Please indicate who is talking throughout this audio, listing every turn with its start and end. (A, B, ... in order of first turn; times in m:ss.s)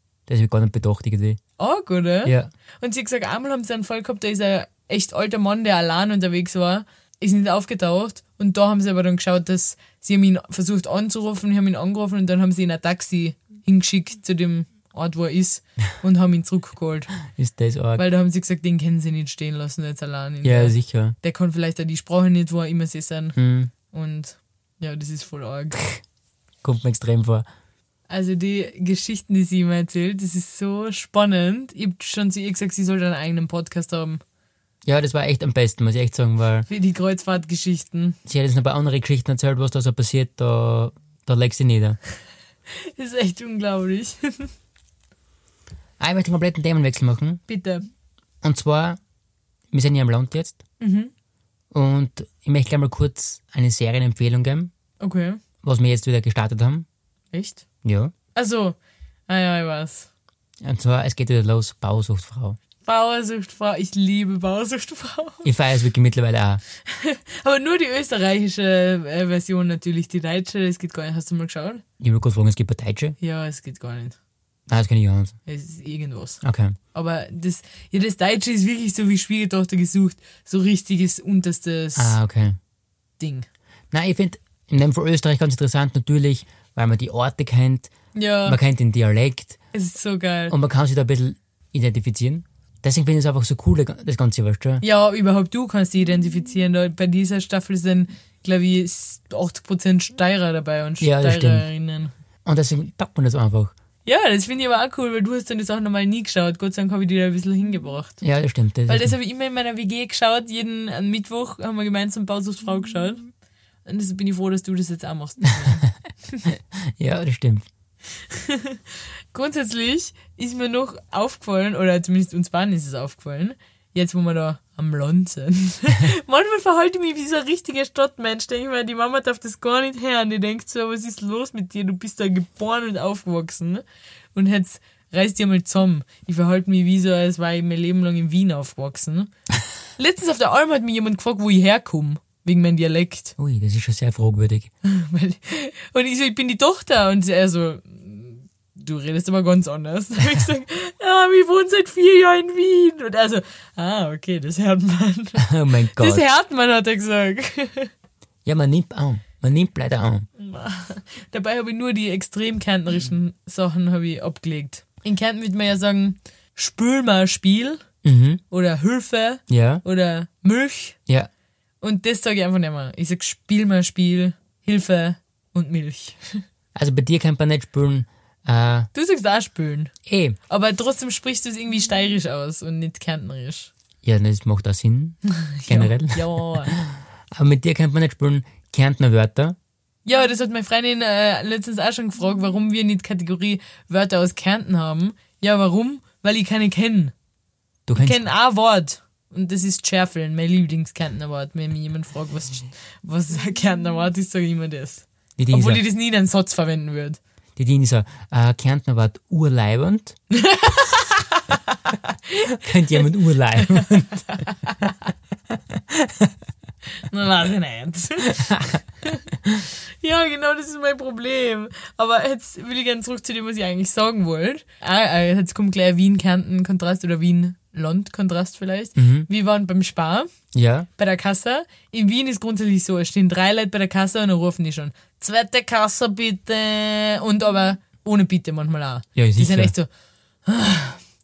0:00.3-0:01.4 A
0:01.6-0:17.2 B
0:02.2-0:02.5 A
0:17.3-0:18.0 A
0:18.0-0:23.4 B
0:20.4-0:21.2 A
0:23.4-0:23.7 A
0:23.9-0:25.8 B
0:26.6-0:27.5 A
0:28.1-0:34.2 B
0:34.8-0:36.7 A
0:36.7-0:38.2 B
0:38.2-0:42.0 A
0:42.7-0:44.5 B
0:46.0-0:47.4 A
0:47.5-0:47.9 B
0:48.4-0:49.0 A
0:49.7-0:50.6 A
0:50.8-0:51.1 B
0:51.7-0:54.7 A
0:55.0-0:55.4 B
0:55.6-0:56.9 A
0:57.3-0:57.6 B
0:57.8-0:58.1 A
0:58.4-0:58.8 B
0:59.3-1:00.1 B
1:00.6-1:02.6 A
1:02.8-1:05.5 B
1:05.4-1:06.6 A
1:06.9-1:11.8 B
1:12.0-1:13.2 A
1:13.2-1:14.2 B
1:14.7-1:15.4 A
1:15.5-1:16.4 B
1:16.4-1:16.8 A
1:16.9-1:22.2 B
1:22.0-1:22.6 A
1:23.2-1:23.5 B
1:23.9-1:27.9 A
1:28.2-1:28.6 B
1:28.5-1:29.6 A
1:29.7-1:30.6 B
1:30.5-1:34.8 A
1:34.8-1:42.1 B
1:41.0-1:41.7 A
1:42.4-1:43.7 A
1:44.0-1:48.2 B
1:48.2-1:49.1 A
1:48.9-1:53.3 B
1:53.8-1:56.4 B
1:57.0-1:57.7 A
1:58.3-2:19.3 B
2:20.0-2:23.4 B
2:23.4-2:24.7 A
2:24.8-2:37.9 B
2:35.4-2:36.2 A
2:38.4-2:40.3 A
2:40.4-2:47.8 B
2:48.0-2:48.4 A
2:48.5-2:51.0 B
2:49.5-2:49.8 A
2:51.8-2:56.4 B
2:56.8-2:58.9 A
2:58.9-2:59.9 B
3:00.1-3:00.4 A
3:00.5-3:03.7 B
3:04.0-3:09.6 A
3:05.4-3:06.7 B
3:10.0-3:17.1 B
3:17.9-3:18.2 A
3:18.0-3:27.2 B
3:25.4-3:25.8 A
3:27.6-3:30.2 A
3:30.3-3:32.5 B
3:32.6-3:34.4 A
3:33.8-3:34.9 B
3:35.7-3:36.3 A
3:37.1-3:39.2 B
3:40.0-3:50.3 B
3:49.0-3:49.3 A
3:50.5-3:50.9 A
3:51.0-3:59.9 B
3:59.2-3:59.7 A
4:00.5-4:01.0 B